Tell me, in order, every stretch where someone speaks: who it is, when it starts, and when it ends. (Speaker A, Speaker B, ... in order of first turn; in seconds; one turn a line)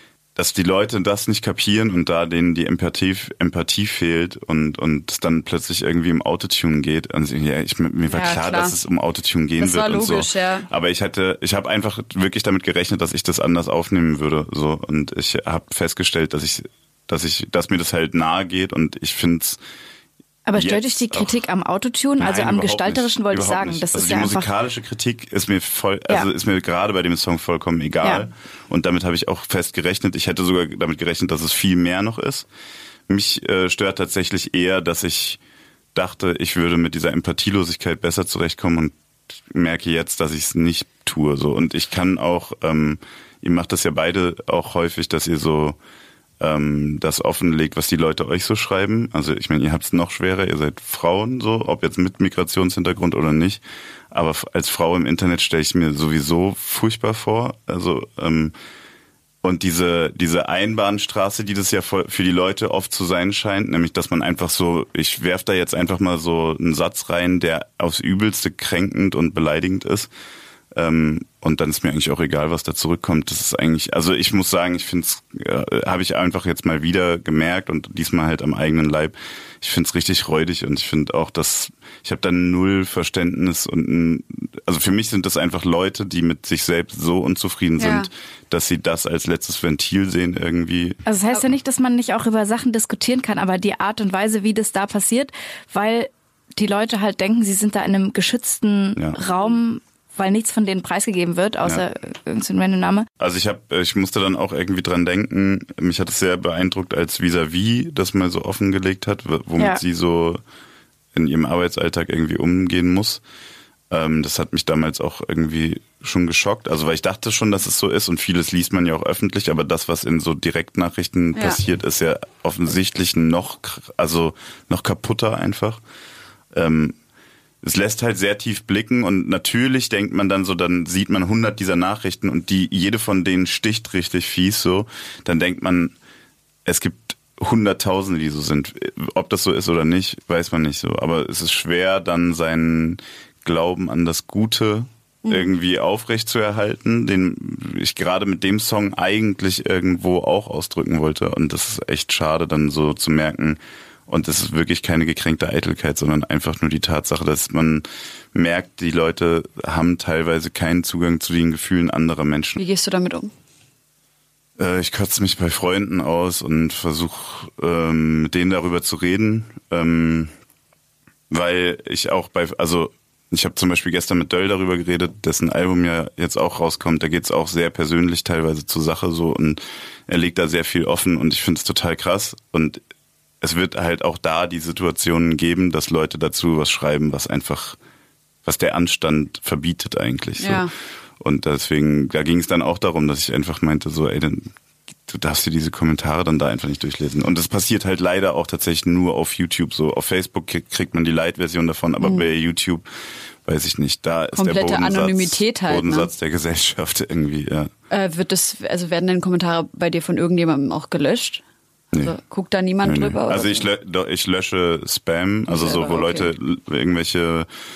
Speaker A: 0.4-19.6
Speaker B: 8.1-8.8
Speaker B: 9.6-10.7
Speaker C: 20.5-24.5
Speaker A: 20.6-21.4
Speaker A: 22.2-32.5
Speaker A: 33.1-35.4
Speaker A: 35.9-45.8
Speaker A: 46.4-58.5
Speaker A: 59.4-70.1
Speaker A: 70.7-91.0
Speaker B: 87.8-88.1
Speaker C: 91.1-103.1
Speaker A: 103.2-110.4
Speaker A: 111.1-113.2
Speaker A: 113.9-125.8
Speaker B: 121.3-121.6
Speaker A: 126.5-127.0
Speaker A: 127.6-135.9
Speaker A: 136.7-162.6
Speaker B: 145.2-145.5
Speaker B: 162.6-163.3
Speaker A: 164.6-170.3
Speaker A: 171.3-182.8
Speaker A: 183.4-187.8
Speaker A: 188.4-194.5
Speaker B: 190.4-190.7
Speaker A: 195.1-202.8
Speaker B: 202.0-202.3
Speaker A: 203.4-207.7
Speaker B: 204.3-206.1
Speaker B: 207.9-211.4
Speaker B: 212.0-213.7
Speaker A: 212.8-217.5
Speaker B: 215.5-216.3